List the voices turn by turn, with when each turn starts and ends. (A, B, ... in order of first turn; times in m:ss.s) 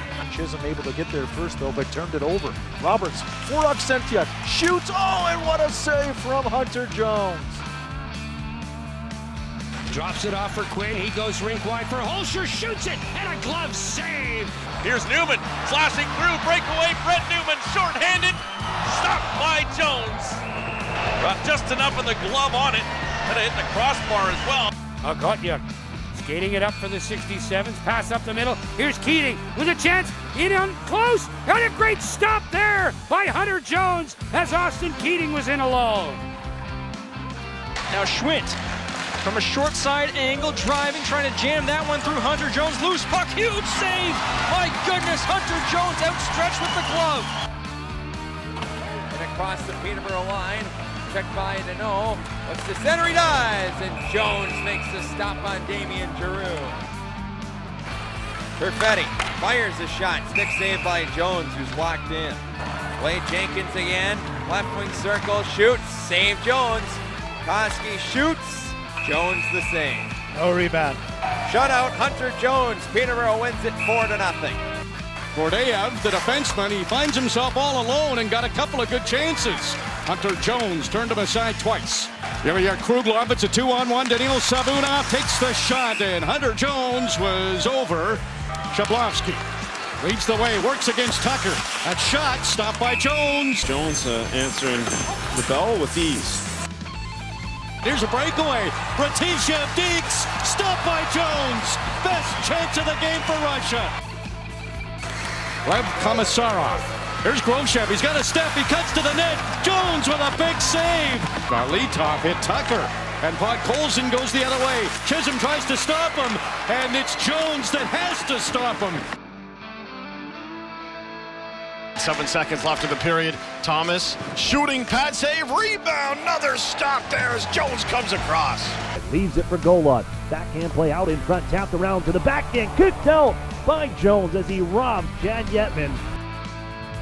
0:00.3-0:07.6 A
0:09.9-0:14.5 B
0:14.8-0:20.4 C
0:21.2-0:24.7 C
0:25.0-0:25.6 B
0:26.1-0:36.2 B
0:37.9-0:38.6 D
0:39.2-0:47.3 D
0:49.1-0:56.8 E
0:58.6-1:02.4 E
1:03.0-1:10.2 E
1:11.5-1:14.6 E
1:15.4-1:28.2 F
1:28.7-1:29.4 F
1:30.0-1:33.7 F
1:33.6-1:36.4 G
1:37.8-1:43.9 F
1:45.6-1:59.0 F
2:02.0-2:08.8 H
2:09.0-2:16.0 I